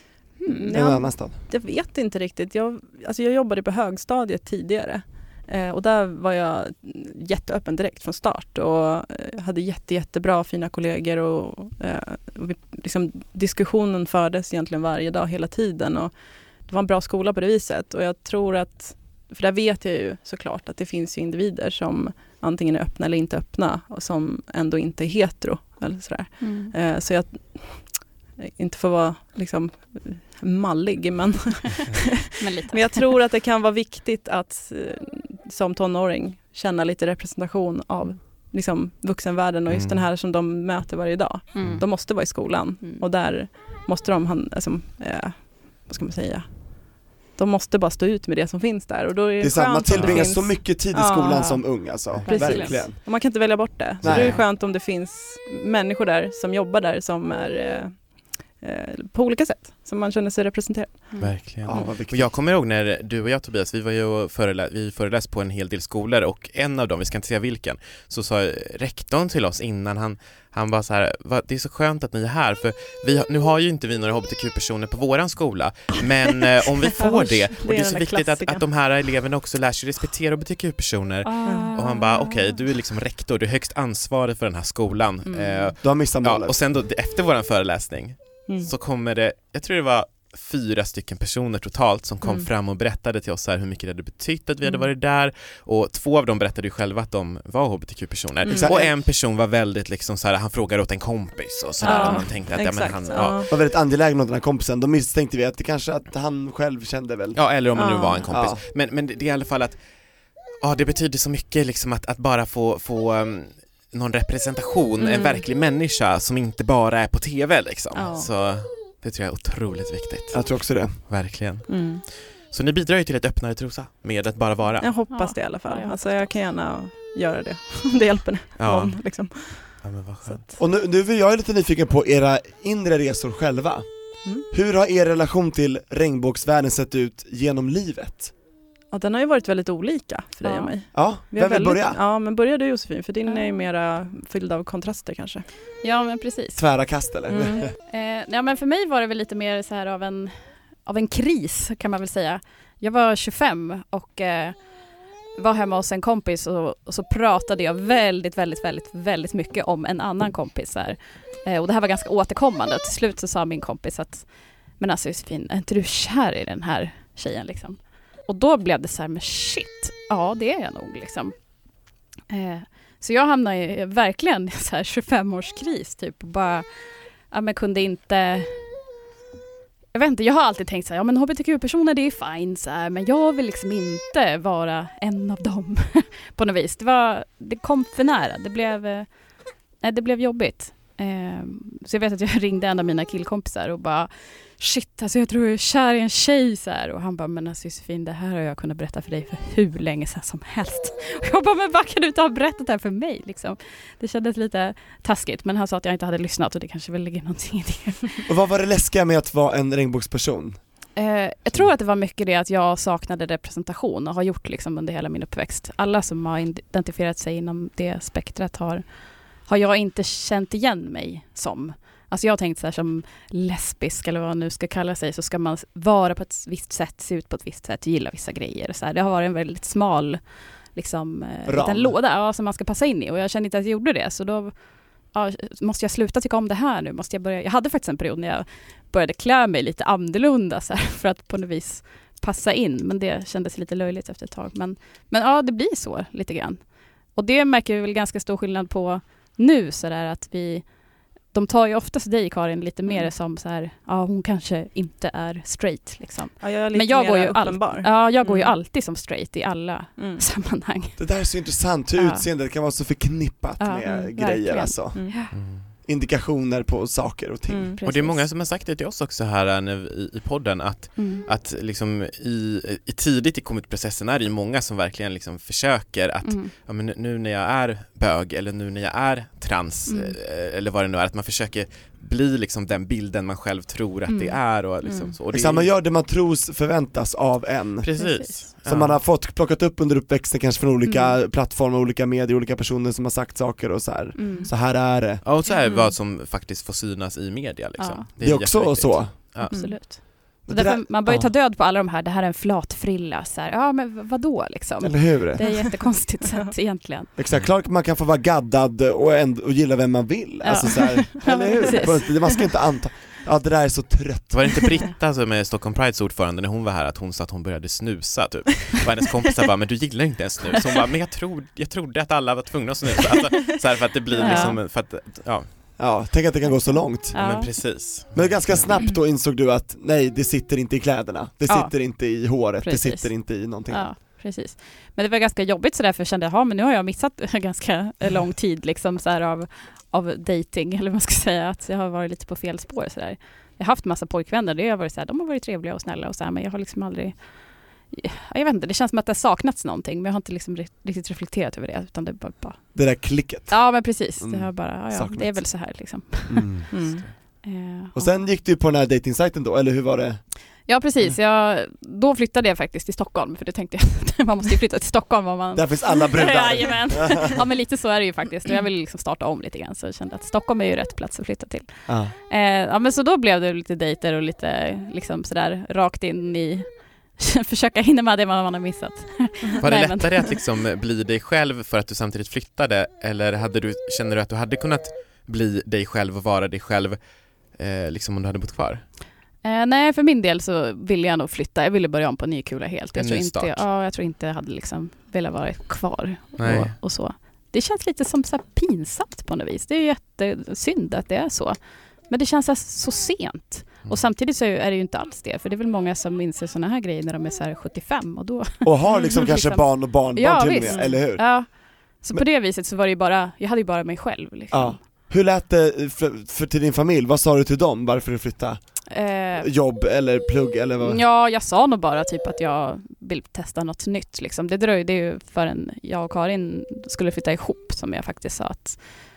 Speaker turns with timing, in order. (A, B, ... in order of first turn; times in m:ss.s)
0:00.4-0:00.7 A
0:00.4-0:16.1 B
0:00.7-0:01.3 C
0:16.6-0:51.6 B
0:26.4-0:26.7 A
0:32.4-0:33.2 A
0:39.7-0:40.0 D
0:41.5-0:42.0 A
0:49.4-0:53.0 C
0:49.9-0:50.2 D
0:51.3-0:51.6 A
0:52.2-0:52.8 A
0:52.2-0:58.0 B
0:54.0-0:54.4 C
0:54.0-0:54.4 D
0:58.6-1:01.1 B
1:01.2-1:43.4 D
1:01.6-1:02.3 C
1:16.9-1:18.6 B
1:21.2-1:22.5 A
1:25.3-1:25.7 A
1:25.8-1:26.6 C
1:38.4-1:38.9 B
1:38.5-1:38.9 C
1:41.8-1:43.5 B
1:41.8-1:42.3 A
1:43.5-1:47.4 C
1:47.3-1:49.8 D
1:47.7-1:48.3 B
1:48.3-1:48.6 C
1:50.6-2:01.9 D
1:55.0-1:55.4 B
1:58.0-1:58.2 B
2:00.3-2:00.9 C
2:01.7-2:02.0 B
2:02.5-2:04.9 D
2:04.8-2:10.4 B
2:05.1-2:06.3 A
2:08.6-2:09.0 D
2:09.8-2:10.4 D
2:10.6-2:13.9 C
2:14.5-2:18.3 C
2:18.9-2:25.4 B
2:20.4-2:20.7 A
2:20.9-2:22.0 C
2:23.3-2:23.6 A
2:25.8-2:26.6 A
2:26.6-2:27.7 C
2:27.3-2:27.6 B
2:27.9-2:30.3 A
2:30.8-2:34.6 A
2:35.4-2:44.3 A
2:44.8-2:51.3 A
2:52.3-2:56.6 A
2:57.3-2:58.5 A
2:59.9-3:09.1 A
3:09.8-3:28.2 A
3:28.3-3:30.6 C
3:31.0-3:38.8 A
3:39.4-3:50.2 A
3:50.7-3:54.5 A
3:51.5-3:52.0 C
3:55.1-4:06.6 A
4:07.1-4:10.6 A
4:11.3-4:21.0 A
4:16.4-4:18.5 B
4:20.0-4:20.2 B
4:21.0-4:25.0 C
4:21.9-4:22.2 A
4:23.6-4:25.3 A
4:25.3-4:25.6 D
4:25.8-4:27.7 C
4:27.5-4:27.8 B
4:27.8-4:28.2 A
4:27.8-4:45.7 D
4:31.0-4:31.2 A
4:36.2-4:36.5 A
4:39.9-4:40.2 A
4:44.1-4:44.4 A
4:45.3-4:47.9 C
4:47.8-4:49.0 D
4:48.0-4:48.4 A
4:48.6-4:55.2 C
4:54.2-4:54.5 A
4:55.2-4:59.5 D
4:57.8-4:58.0 A
4:58.2-4:59.4 C
4:59.4-5:07.1 A
4:59.5-4:59.8 B
5:00.4-5:01.3 C
5:04.8-5:05.4 C
5:07.2-5:14.7 C
5:10.4-5:12.4 A
5:11.2-5:11.8 B
5:14.3-5:25.5 D
5:24.1-5:24.5 B
5:24.2-5:24.6 A
5:25.8-5:27.2 C
5:27.1-5:27.5 A
5:27.1-5:28.7 D
5:28.1-5:33.9 C
5:31.5-5:52.8 A
5:52.7-5:55.6 C
5:53.5-5:56.8 A
5:56.3-5:56.7 C
5:56.7-5:57.0 B
5:56.8-5:57.1 D
5:57.4-5:58.1 A
5:57.9-6:00.2 C
6:00.7-6:20.3 A
6:05.5-6:07.4 C
6:11.9-6:12.1 C
6:19.6-6:27.0 D
6:27.5-6:28.8 D
6:29.4-6:41.6 A
6:33.0-6:33.6 D
6:36.4-6:36.7 D
6:42.1-6:54.8 A
6:48.6-6:51.4 C
6:48.9-6:49.2 B
6:54.5-6:58.8 C
6:58.9-6:59.5 A
6:59.4-7:01.0 C
7:00.8-7:08.8 A